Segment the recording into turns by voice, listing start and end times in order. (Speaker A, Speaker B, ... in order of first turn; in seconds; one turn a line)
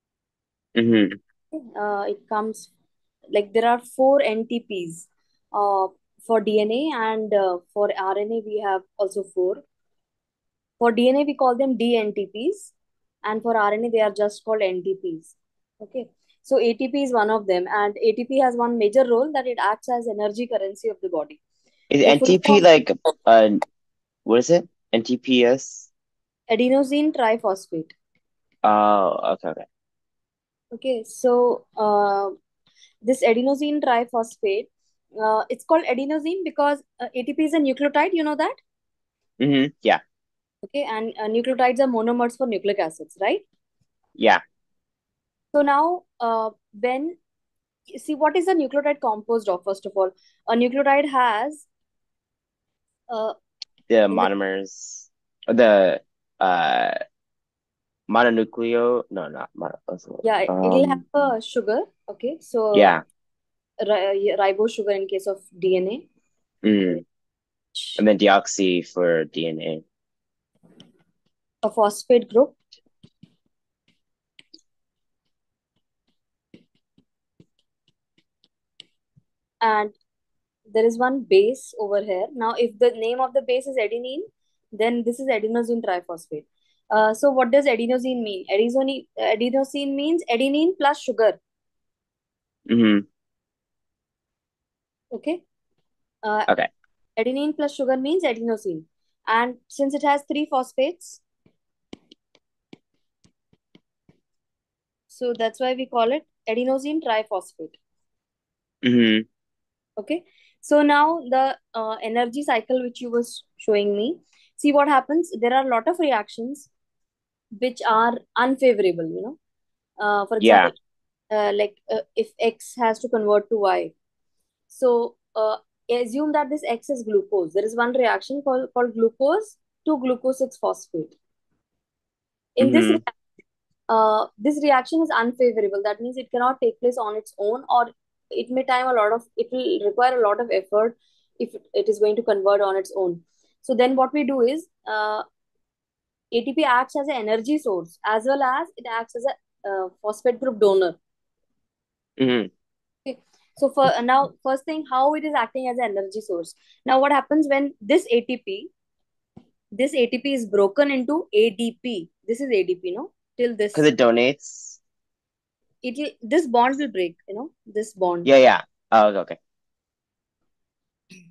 Speaker A: 0.8-1.2
Speaker B: 1.7-2.7
Speaker B: 3.3-9.6
Speaker B: 10.8-12.7
Speaker B: 13.2-21.4
Speaker A: 21.9-23.6
Speaker B: 22.0-22.6
Speaker A: 24.2-25.9
Speaker B: 26.5-27.9
Speaker A: 28.6-29.6
Speaker B: 30.7-32.3
Speaker B: 33.0-34.7
Speaker B: 35.2-38.5
Speaker A: 39.4-40.0
Speaker B: 40.6-43.4
Speaker B: 45.5-47.1
Speaker B: 47.9-51.6
Speaker B: 53.1-53.3
Speaker A: 53.9-56.9
Speaker A: 58.1-61.0
Speaker B: 60.2-63.0
Speaker A: 62.7-63.0
Speaker B: 63.8-66.0
Speaker A: 66.6-67.0
Speaker B: 67.7-68.0
Speaker A: 68.0-69.8
Speaker B: 71.6-72.5
Speaker B: 79.6-79.9
Speaker B: 80.7-91.4
Speaker A: 92.7-93.0
Speaker B: 95.1-95.4
Speaker B: 96.2-96.5
Speaker B: 97.2-101.2
Speaker B: 105.1-107.8
Speaker A: 108.8-109.2
Speaker B: 110.0-116.7
Speaker B: 117.6-119.3
Speaker B: 120.0-120.7
Speaker A: 120.4-120.7
Speaker B: 121.3-123.9
Speaker B: 124.7-131.1
Speaker B: 132.6-133.1
Speaker A: 132.6-133.0
Speaker B: 133.9-145.2
Speaker B: 146.3-151.0
Speaker A: 152.2-152.5
Speaker B: 153.1-158.7
Speaker B: 159.7-163.9
Speaker A: 163.7-164.8
Speaker B: 165.8-168.3
Speaker A: 168.2-169.4